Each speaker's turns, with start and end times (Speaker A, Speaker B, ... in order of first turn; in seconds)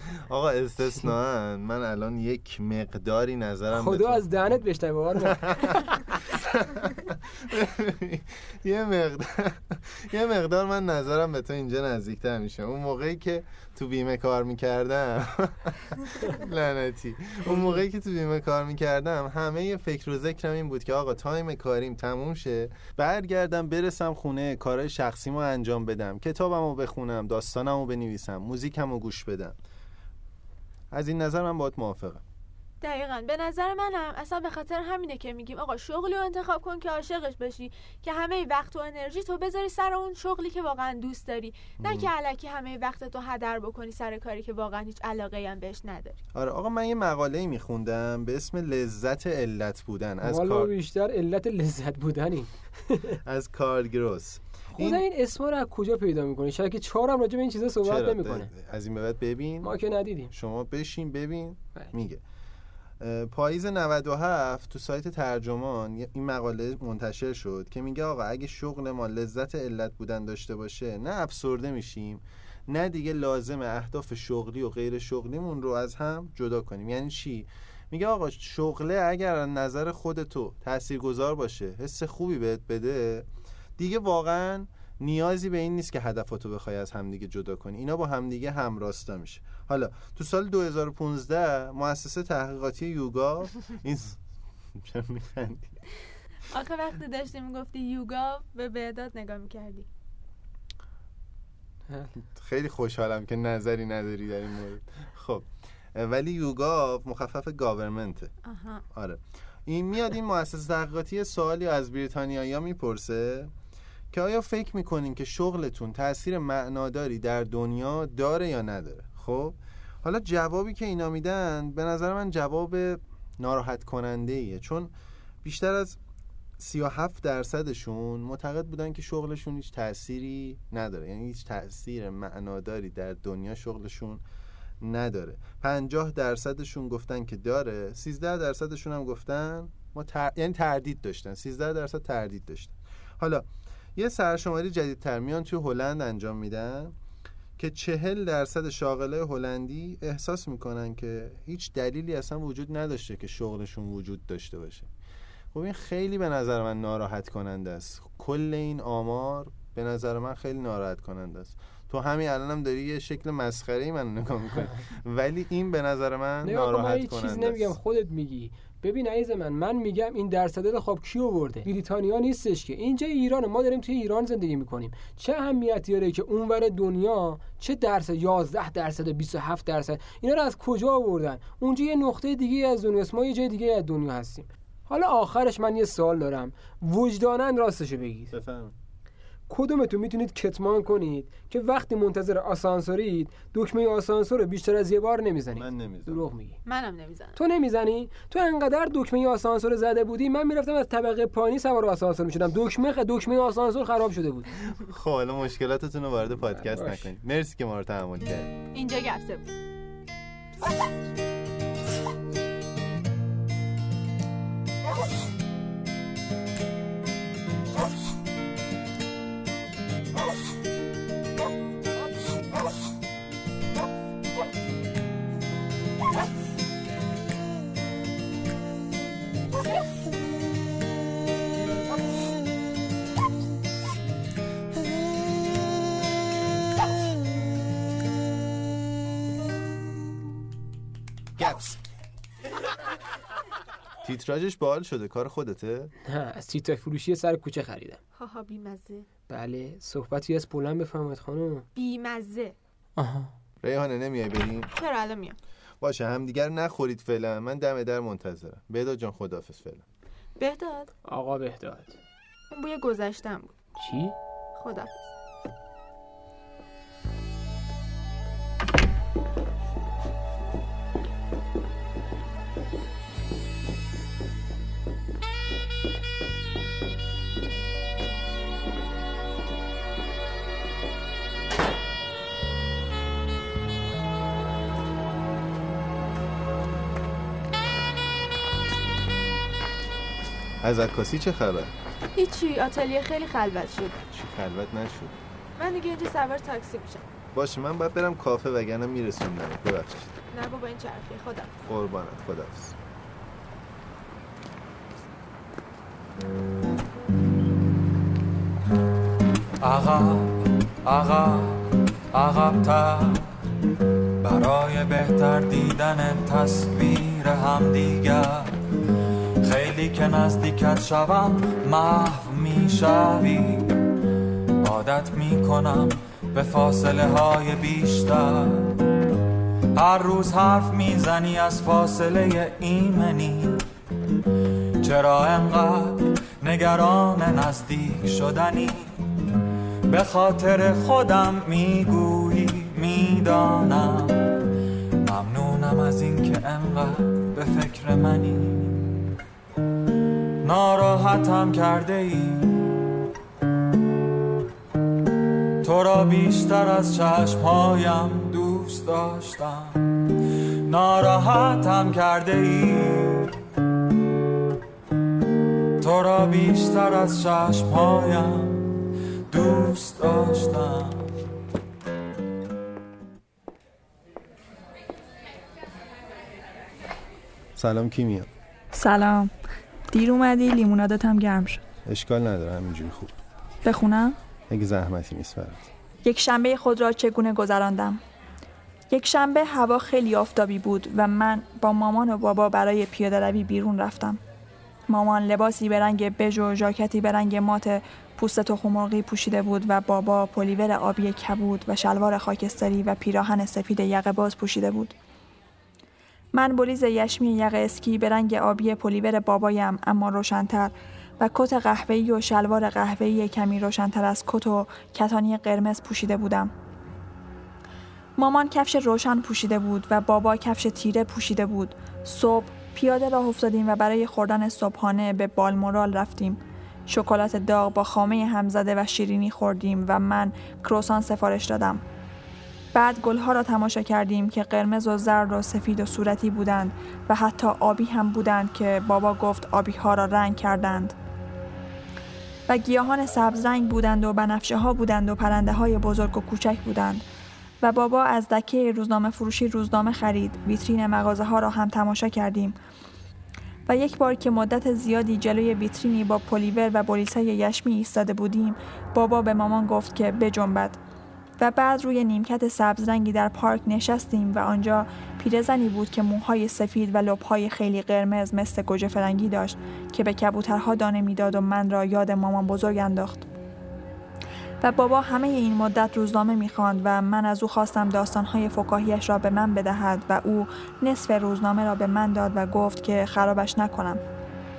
Speaker A: 0.3-4.6, 5.1-29.6, 30.9-32.2, 41.8-42.1, 46.3-50.7, 53.2-55.0, 57.8-59.8, 60.3-62.2, 63.0-94.2, 94.7-95.8, 102.3-108.3, 108.9-113.5, 114.1-124.9, 125.4-126.0, 126.6-134.2, 134.8-146.9, 147.6-154.9, 155.5-167.8, 188.3-188.7, 195.5-196.3, 204.7-208.5, 241.4-241.8, 244.0-245.9, 253.6-254.7, 255.8-259.8, 290.6-291.7, 294.1-295.1, 297.3-300.2, 301.6-302.8, 377.6-378.3, 381.9-383.1, 384.5-385.6
Speaker B: 3.7-6.0, 50.2-53.2, 54.7-58.5, 59.6-60.3, 166.4-188.3, 189.5-196.6, 197.3-204.5, 206.6-207.0, 246.1-248.0, 249.3-251.6, 253.0-253.3, 261.0-262.0, 263.8-264.1
Speaker C: 32.8-46.2, 96.5-99.8, 108.4-108.8, 196.7-197.4, 208.7-209.4, 248.1-249.1, 251.7-252.6, 254.7-255.4, 260.4-260.9, 262.5-263.7, 264.6-265.0, 292.1-294.0, 295.6-297.0, 300.3-301.5
Speaker D: 309.6-313.3, 314.2-318.6, 319.4-323.7, 324.6-328.8, 329.7-333.6, 334.8-338.9, 339.9-344.2, 345.0-348.9, 350.4-352.6, 355.6-359.9, 360.6-363.4, 365.8-368.7, 369.3-371.1
Speaker E: 378.7-379.3, 379.9-381.6, 383.6-384.2, 386.0-388.0, 388.9-394.2, 394.9-404.9, 406.3-416.5, 418.2-431.8, 432.7-440.9, 442.5-447.0, 447.6-452.6, 453.7-460.8, 461.4-473.3, 474.6-484.0